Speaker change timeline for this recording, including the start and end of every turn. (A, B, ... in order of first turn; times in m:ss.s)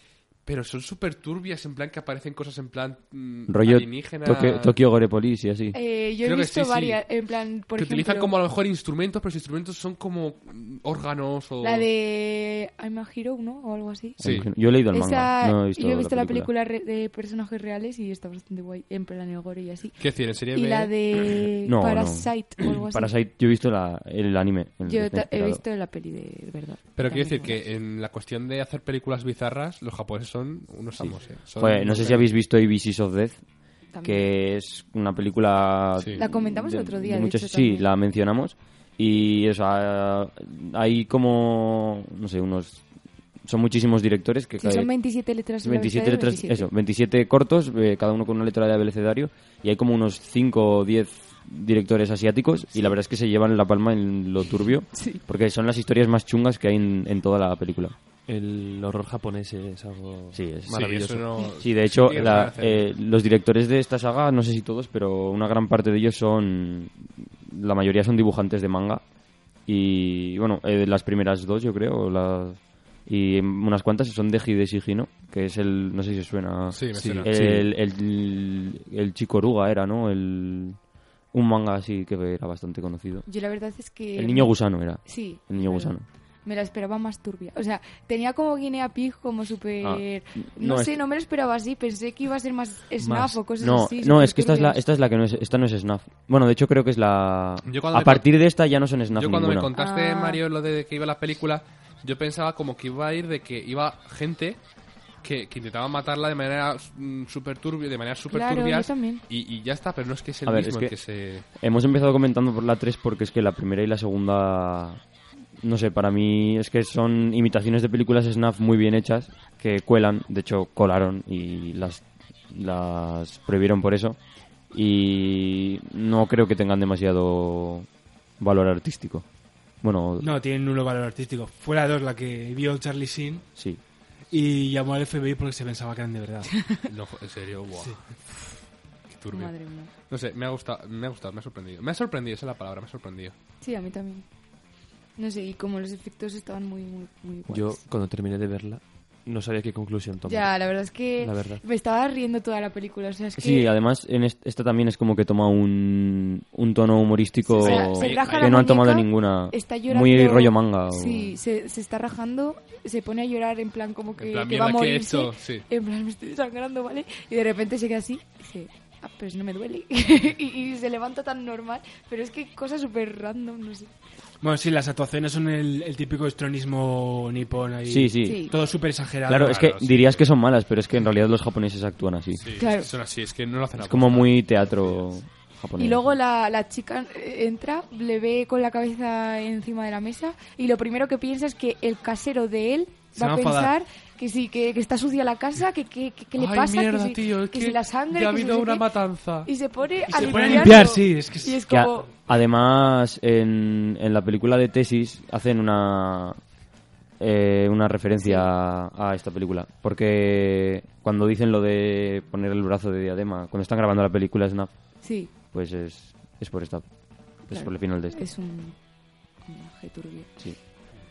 0:00.4-0:04.8 A
0:03.5-0:05.8 B
0:05.7-0:08.3 C
0:06.2-0:07.1 A
0:07.7-0:11.9 A
0:11.6-0:23.1 C
0:14.2-0:16.5 B
0:14.2-0:14.5 A
0:20.0-0:20.9 A
0:21.6-0:25.6 B
0:24.8-0:27.6 C
0:27.0-0:32.3 A
0:31.0-0:33.4 B
0:33.9-0:34.3 C
0:34.0-0:42.8 B
0:36.1-0:37.9 C
0:43.4-0:44.9 B
0:44.6-0:46.7 C
0:45.6-0:57.9 B
0:54.9-0:55.2 C
0:58.3-1:01.5 D
1:00.3-1:00.9 B
1:00.7-1:02.9 A
1:01.6-1:09.0 B
1:09.6-1:20.8 B
1:16.7-1:17.3 A
1:16.9-1:17.7 D
1:21.3-1:23.2 B
1:23.2-1:34.8 C
1:24.1-1:26.0 B
1:29.8-1:31.0 B
1:33.0-1:33.4 D
1:33.6-1:39.7 B
1:37.6-1:38.2 A
1:39.1-1:44.6 A
1:39.7-1:40.4 C
1:45.2-1:51.4 A
1:48.3-1:49.2 C
1:50.4-1:55.0 B
1:55.6-2:10.3 B
2:10.2-2:13.5 E
2:14.3-2:16.7 E
2:16.9-2:18.5 A
2:19.1-2:23.4 A
2:19.3-2:19.9 C
2:23.6-2:24.3 C
2:25.2-2:27.8 C
2:27.5-2:31.6 D
2:30.2-2:33.7 C
2:33.4-2:41.4 B
2:37.4-2:53.9 C
2:37.6-2:38.6 A
2:44.2-2:45.6 A
2:54.4-2:59.6 E
2:57.8-2:58.4 B
2:58.2-2:58.6 C
2:59.2-3:02.6 B
2:59.3-3:00.2 A
3:02.3-3:05.0 A
3:02.6-3:02.9 C
3:03.8-3:06.2 B
3:05.8-3:22.1 C
3:13.1-3:13.7 E
3:16.3-3:19.5 A
3:20.1-3:21.6 E
3:21.7-3:26.4 B
3:27.2-3:38.3 B
3:28.2-3:28.5 C
3:35.0-3:35.3 C
3:37.4-3:38.8 C
3:39.4-3:40.3 C